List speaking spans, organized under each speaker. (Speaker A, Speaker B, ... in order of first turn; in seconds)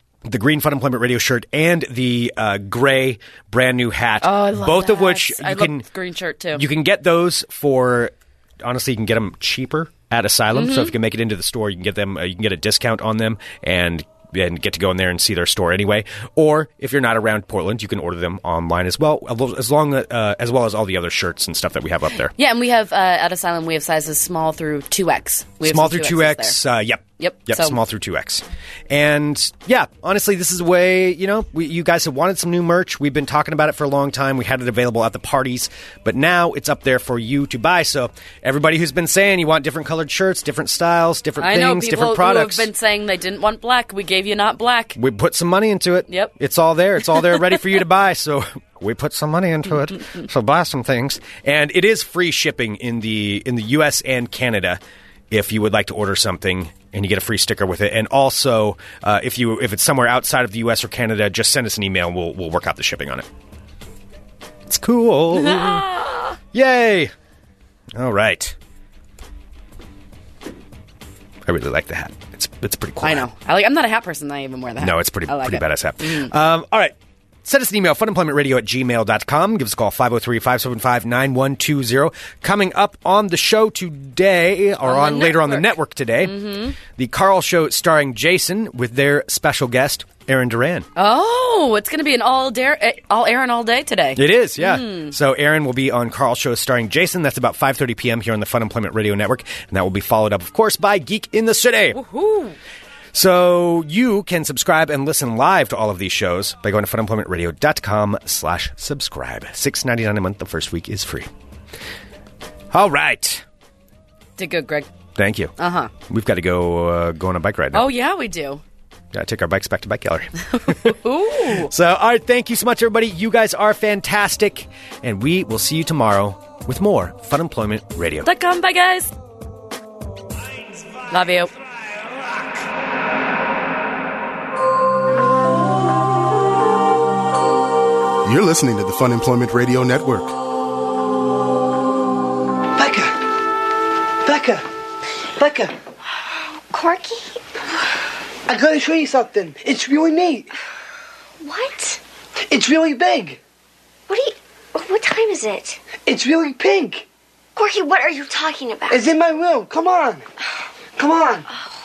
Speaker A: 0.2-5.8, 6.5-22.3, 25.6-42.7, 45.0-63.3, 64.7-66.0, 66.5-67.1, 67.9-68.5, 71.4-73.2, 74.8-90.8, 94.1-102.0, 103.1-111.3, 112.7-113.4, 115.2-117.9, 119.1-128.3
Speaker B: 4.2-6.7, 10.5-10.9, 22.3-26.6, 27.2-27.8, 41.4-45.0, 65.3-66.3, 73.0-76.3, 84.8-86.8, 91.0-95.1, 101.9-102.5, 114.4-114.9, 115.6-115.9, 117.7-118.6, 120.7-121.7, 128.2-129.1, 131.1-131.5
Speaker C: 138.2-140.3
Speaker D: 142.8-143.3, 144.2-144.7, 145.4-145.7, 148.5-150.5, 152.5-153.4, 156.1-157.1, 158.9-160.2, 161.0-161.4
Speaker E: 146.7-147.4, 151.4-152.0, 154.1-155.8, 157.6-159.0